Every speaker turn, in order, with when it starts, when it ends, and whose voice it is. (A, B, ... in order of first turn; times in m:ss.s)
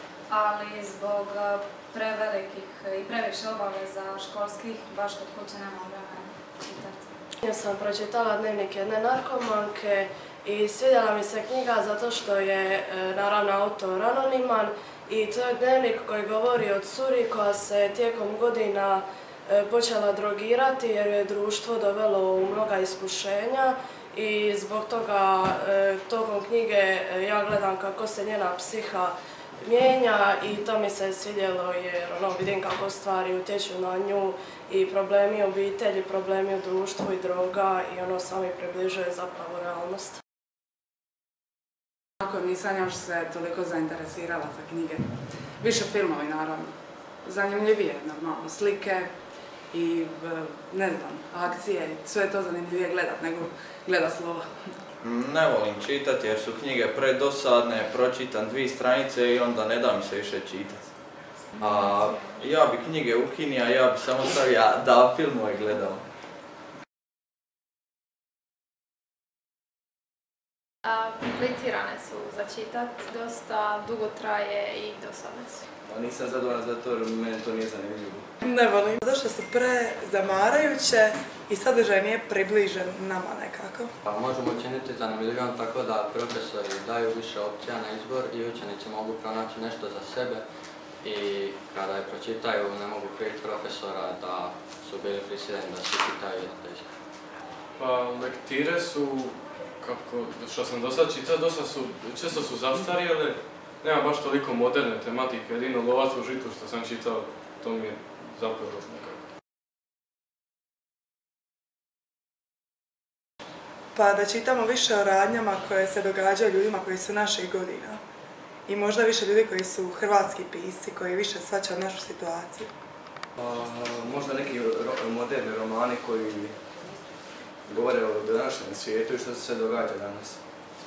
0:00.3-0:07.2 A
0:07.4-0:40.0 B
0:42.2-0:54.7 C
0:55.0-1:06.0 D
1:10.9-1:15.6 E
1:15.8-1:18.3 F
1:18.4-1:23.9 G
1:24.0-1:36.9 H
1:37.8-1:49.2 I
1:54.0-1:58.0 G
1:58.7-2:02.7 G
2:03.4-2:06.5 F
2:07.7-2:10.4 F